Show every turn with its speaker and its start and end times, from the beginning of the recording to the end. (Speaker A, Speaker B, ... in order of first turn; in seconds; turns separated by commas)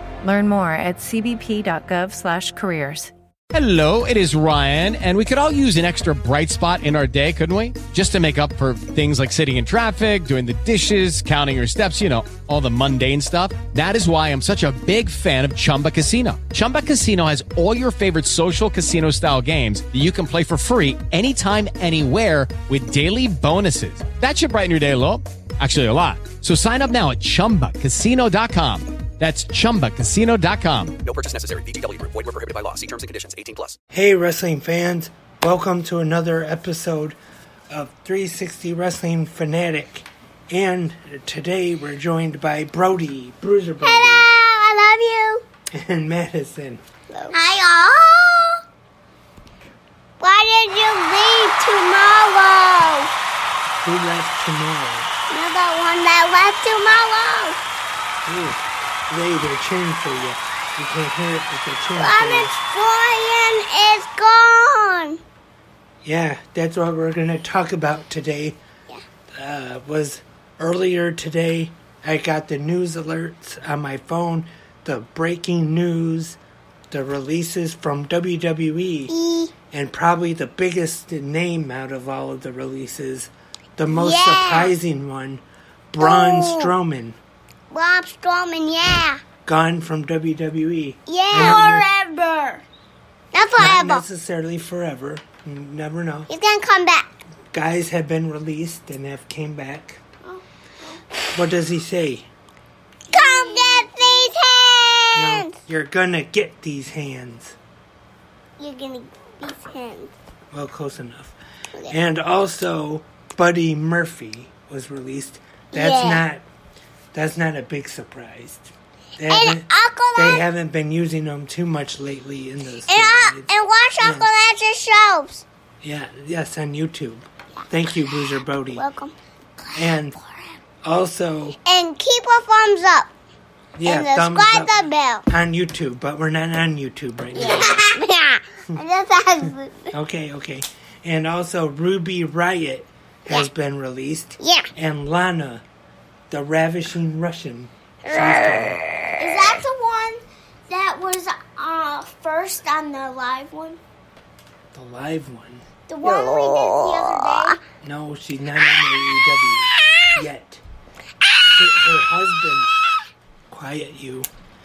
Speaker A: 0.2-3.1, Speaker B: 3.5-31.0, Speaker C: 31.1-33.8, Speaker D: 33.9-37.2, Speaker D: 37.7-44.3, Speaker E: 43.8-45.4, Speaker D: 45.7-46.8, Speaker E: 47.1-48.1, Speaker E: 50.2-53.1, Speaker D: 53.8-55.1, Speaker E: 55.3-57.6, Speaker D: 58.2-62.6, Speaker E: 62.0-65.2, Speaker D: 66.0-68.6, Speaker D: 69.3-76.4, Speaker D: 76.9-79.2, Speaker E: 79.1-79.5, Speaker D: 79.7-87.2, Speaker E: 83.9-84.7, Speaker E: 86.0-86.7, Speaker E: 87.7-89.2, Speaker D: 89.5-91.9, Speaker E: 91.1-91.6, Speaker F: 91.3-92.7, Speaker E: 93.3-94.0, Speaker D: 93.6-96.3, Speaker E: 96.3-97.1, Speaker D: 97.5-100.0, Speaker F: 100.2-101.0, Speaker D: 101.3-102.3, Speaker E: 103.1-105.5, Speaker F: 103.1-104.2, Speaker D: 105.2-107.6, Speaker E: 108.6-110.1, Speaker D: 110.5-111.4, Speaker D: 111.9-116.5, Speaker E: 115.8-116.2, Speaker D: 117.1-124.3, Speaker E: 119.3-120.4, Speaker E: 122.9-125.4, Speaker D: 125.8-128.8, Speaker E: 128.8-129.8, Speaker D: 129.8-130.2, Speaker D: 130.8-131.6, Speaker E: 131.7-133.1, Speaker D: 133.8-137.8, Speaker E: 133.9-135.2, Speaker E: 137.4-139.9, Speaker D: 139.9-145.6, Speaker E: 144.4-144.7, Speaker D: 146.3-148.8, Speaker E: 148.1-149.6, Speaker F: 149.2-153.8, Speaker D: 154.7-155.6, Speaker F: 155.9-157.6, Speaker E: 156.0-157.6, Speaker D: 157.8-160.6, Speaker D: 161.5-162.7, Speaker D: 163.5-164.3